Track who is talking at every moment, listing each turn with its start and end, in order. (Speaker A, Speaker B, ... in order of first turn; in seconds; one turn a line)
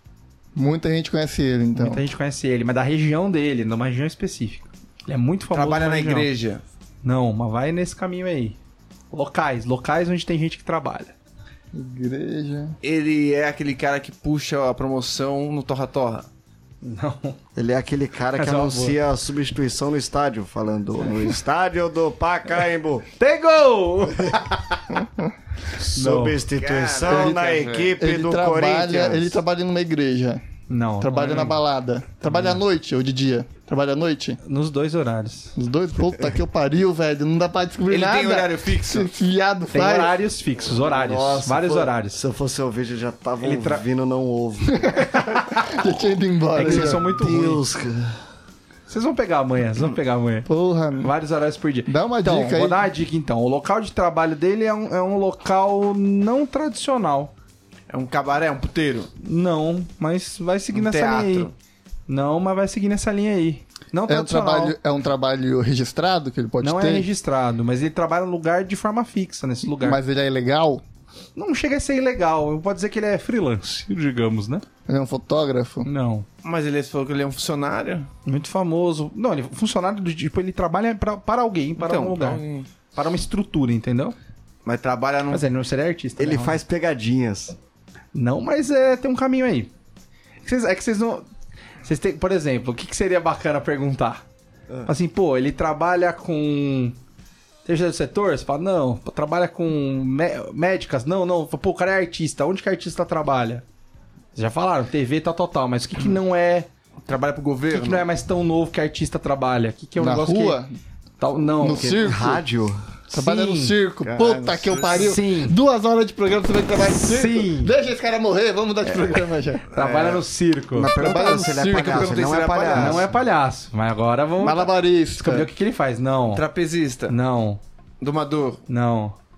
Speaker A: 0.6-2.0
Speaker B: 1.8-6.3
Speaker C: 5.5-6.6
Speaker B: 7.0-8.6
Speaker B: 9.1-11.1
Speaker A: 11.7-12.8
Speaker C: 12.8-16.3
Speaker B: 16.8-17.4
Speaker D: 17.6-23.1
Speaker B: 18.4-19.0
Speaker B: 23.2-24.8
Speaker D: 25.8-29.4
Speaker B: 25.8-26.4
Speaker C: 26.6-27.9
Speaker A: 27.1-30.4
Speaker B: 30.7-31.6
Speaker A: 31.0-34.4
Speaker B: 32.3-32.6
Speaker B: 34.4-35.5
Speaker A: 35.6-40.1
Speaker C: 37.9-39.1
Speaker B: 39.7-42.2
Speaker D: 40.6-45.0
Speaker B: 43.4-43.8
Speaker A: 45.7-47.0
Speaker B: 46.5-47.6
Speaker D: 46.6-48.2
Speaker B: 48.9-50.5
Speaker A: 50.5-51.1
Speaker B: 51.0-57.3
Speaker A: 51.9-52.9
Speaker C: 57.9-59.1
Speaker B: 59.2-61.5
Speaker C: 60.7-61.5
Speaker B: 62.1-64.8
Speaker A: 64.1-67.1
Speaker B: 66.6-70.0
Speaker A: 69.8-70.8
Speaker B: 71.4-74.6
Speaker A: 74.9-75.9
Speaker B: 75.8-76.3
Speaker C: 76.4-78.1
Speaker B: 78.2-82.4
Speaker C: 81.8-82.7
Speaker B: 83.0-84.2
Speaker C: 84.7-85.4
Speaker B: 85.3-86.6
Speaker D: 86.2-87.6
Speaker B: 88.1-89.7
Speaker B: 90.5-91.2
Speaker B: 91.8-94.2
Speaker B: 94.9-97.0
Speaker B: 97.7-103.6
Speaker B: 104.3-106.7
Speaker C: 107.1-108.1
Speaker B: 107.7-110.6
Speaker A: 110.0-110.8
Speaker B: 111.2-112.0
Speaker A: 111.6-112.4
Speaker D: 111.7-112.8
Speaker B: 113.1-113.8
Speaker A: 113.1-119.7
Speaker C: 114.0-115.1
Speaker B: 115.0-115.6
Speaker B: 116.8-117.7
Speaker B: 119.7-120.9
Speaker C: 119.8-120.2
Speaker D: 120.8-123.1
Speaker A: 120.8-122.3
Speaker C: 121.7-123.1
Speaker B: 122.7-126.5
Speaker A: 124.4-125.5
Speaker C: 126.3-127.2
Speaker B: 127.1-127.6
Speaker C: 128.0-128.6
Speaker B: 128.7-129.2